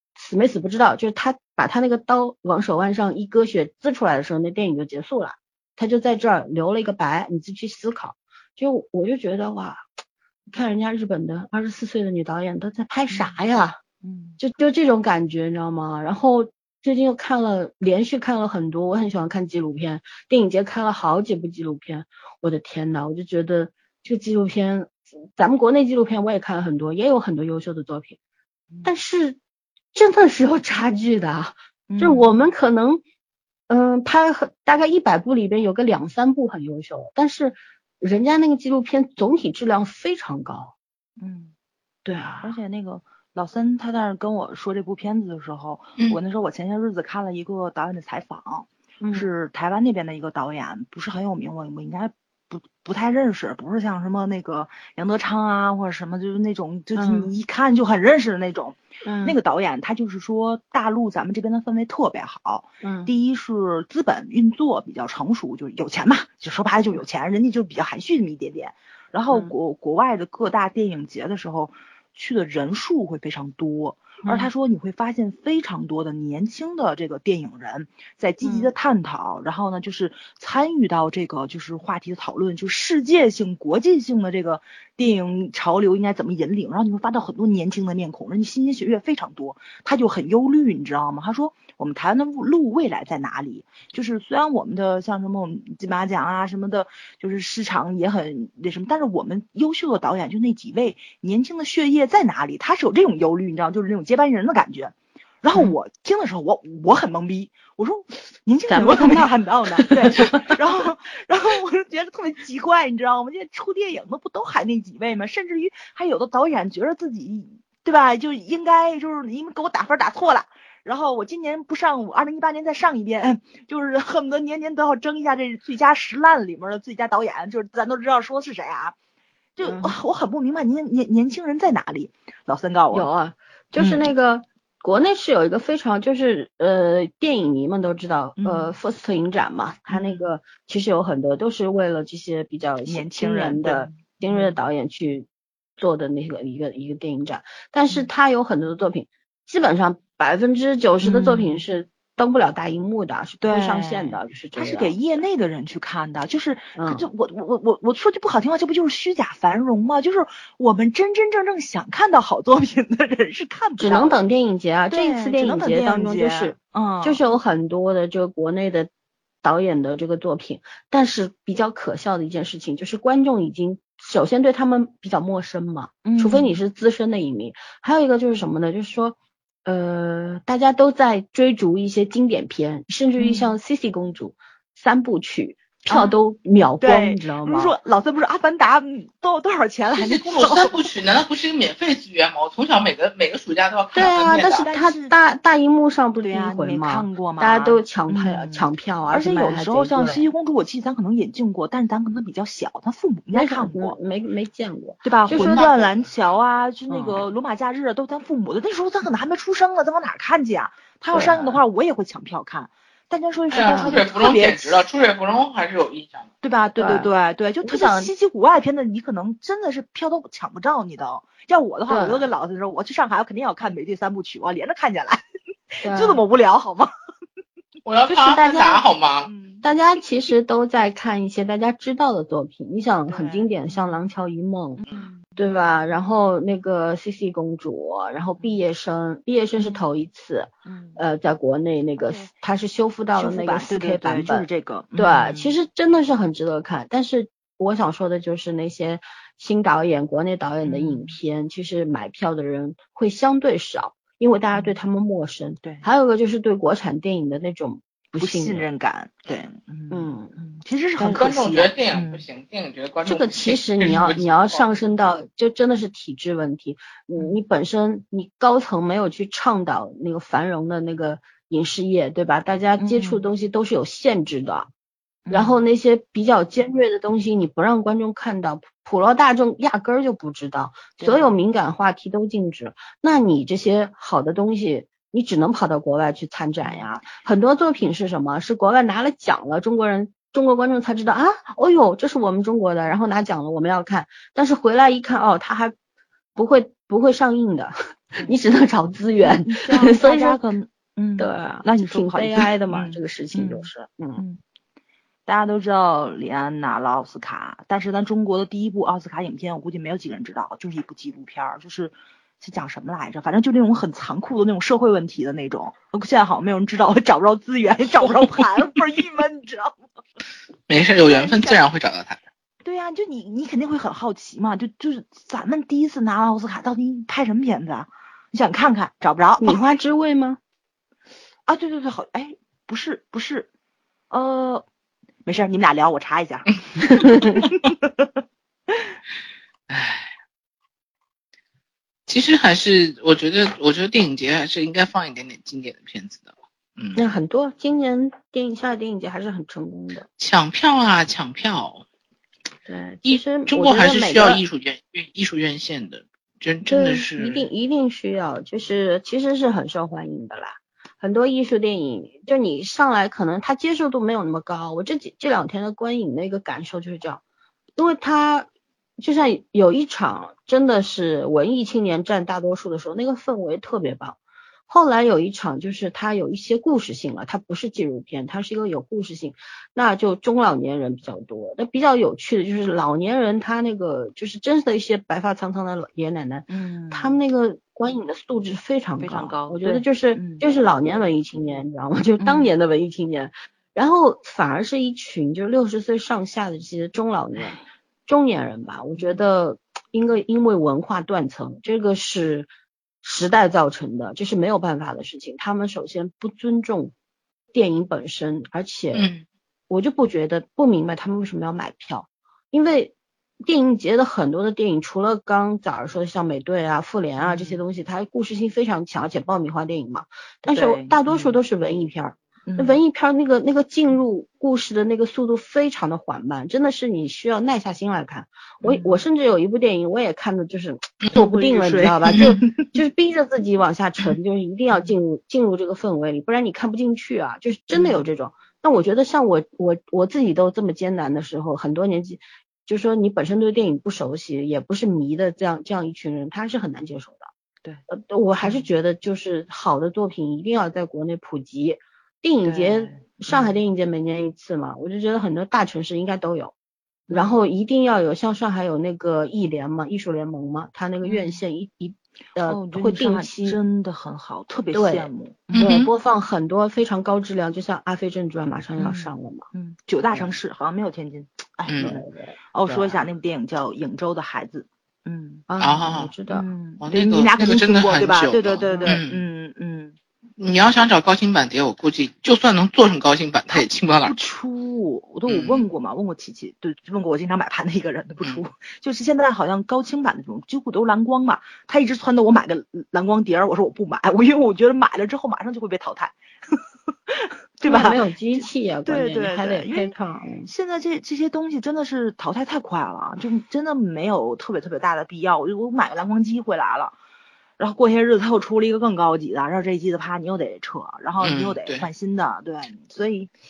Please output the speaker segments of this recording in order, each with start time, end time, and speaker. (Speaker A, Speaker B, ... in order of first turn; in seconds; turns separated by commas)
Speaker A: 0.1-9.8, Speaker A: 10.5-13.8, Speaker B: 13.1-13.4, Speaker B: 14.0-14.4, Speaker A: 14.4-28.2, Speaker A: 28.8-29.4, Speaker A: 29.9-33.0, Speaker B: 31.9-32.3, Speaker A: 33.7-40.7, Speaker B: 41.2-41.5, Speaker A: 42.0-42.6, Speaker B: 42.4-128.9, Speaker A: 49.0-49.3, Speaker A: 56.9-57.3, Speaker A: 59.0-59.4, Speaker A: 62.8-63.1, Speaker A: 74.2-74.5, Speaker A: 78.4-78.7, Speaker A: 108.7-110.4, Speaker B: 129.6-133.1, Speaker A: 129.6-130.0, Speaker A: 132.9-155.0, Speaker B: 133.8-134.0, Speaker B: 138.4-138.7, Speaker B: 139.9-140.3, Speaker B: 142.8-144.5, Speaker B: 151.0-151.6, Speaker B: 153.4-164.2, Speaker A: 156.8-157.1, Speaker A: 163.8-168.9, Speaker B: 164.9-167.2, Speaker A: 169.4-187.7, Speaker B: 176.0-176.6, Speaker B: 183.2-183.6, Speaker B: 185.9-186.2, Speaker B: 186.8-190.7, Speaker C: 189.9-194.7, Speaker A: 193.9-200.2, Speaker B: 194.0-195.1, Speaker B: 196.2-204.0, Speaker A: 203.3-205.9, Speaker B: 205.0-214.8, Speaker A: 206.9-207.3, Speaker A: 211.1-211.6, Speaker C: 213.5-216.3, Speaker A: 213.6-214.0, Speaker B: 216.4-225.2, Speaker A: 216.8-217.1, Speaker A: 217.6-218.1, Speaker A: 221.9-222.2, Speaker A: 225.8-226.2, Speaker B: 225.8-226.9, Speaker C: 227.8-229.3, Speaker A: 228.1-228.8, Speaker B: 229.2-229.6, Speaker A: 229.6-234.8, Speaker B: 233.1-234.0, Speaker B: 234.8-235.3, Speaker A: 235.3-258.6, Speaker B: 240.7-241.0, Speaker B: 243.2-245.6, Speaker B: 250.6-251.2, Speaker B: 258.2-262.2, Speaker A: 259.9-260.3, Speaker C: 261.0-264.6, Speaker A: 263.0-274.7, Speaker B: 272.8-273.2, Speaker B: 275.3-275.6, Speaker A: 275.3-295.7, Speaker B: 281.0-281.3, Speaker B: 286.6-286.9, Speaker A: 296.4-300.4, Speaker B: 299.2-304.4, Speaker A: 301.2-304.2, Speaker B: 305.3-319.8, Speaker C: 320.7-322.2, Speaker B: 321.0-321.6, Speaker B: 322.6-329.6, Speaker A: 329.4-330.4, Speaker B: 331.5-333.5, Speaker B: 334.1-334.6, Speaker B: 335.2-337.9, Speaker A: 336.9-337.4, Speaker C: 339.7-340.1, Speaker C: 342.1-347.0, Speaker A: 346.9-350.1, Speaker C: 350.2-351.8, Speaker A: 352.6-354.4, Speaker C: 353.0-357.5, Speaker A: 356.7-367.2, Speaker A: 367.8-368.5, Speaker A: 369.0-374.2, Speaker A: 374.7-402.5, Speaker B: 386.5-387.2, Speaker B: 389.0-390.4, Speaker B: 392.2-392.5, Speaker A: 403.0-406.9, Speaker A: 407.5-409.1, Speaker C: 408.9-409.2, Speaker A: 409.7-447.3, Speaker B: 417.2-417.6, Speaker B: 420.5-421.4, Speaker B: 422.5-422.8, Speaker B: 428.6-429.0, Speaker B: 431.1-432.7, Speaker B: 437.7-438.0, Speaker A: 447.9-456.5, Speaker B: 448.4-448.7, Speaker B: 452.4-453.6, Speaker B: 457.1-457.4, Speaker A: 457.1-463.6, Speaker B: 461.0-461.4, Speaker B: 462.4-465.8, Speaker A: 464.7-469.5, Speaker C: 465.5-465.9, Speaker B: 468.8-475.4, Speaker C: 471.7-471.9, Speaker A: 471.8-473.0, Speaker A: 475.5-476.4, Speaker C: 475.6-476.1, Speaker B: 476.3-479.9, Speaker C: 476.8-479.2, Speaker A: 478.6-479.0, Speaker C: 480.4-484.2, Speaker B: 483.5-496.1, Speaker C: 485.3-485.6, Speaker B: 497.1-499.9, Speaker A: 497.6-500.5, Speaker B: 500.4-506.9, Speaker B: 507.6-513.3, Speaker C: 511.2-511.9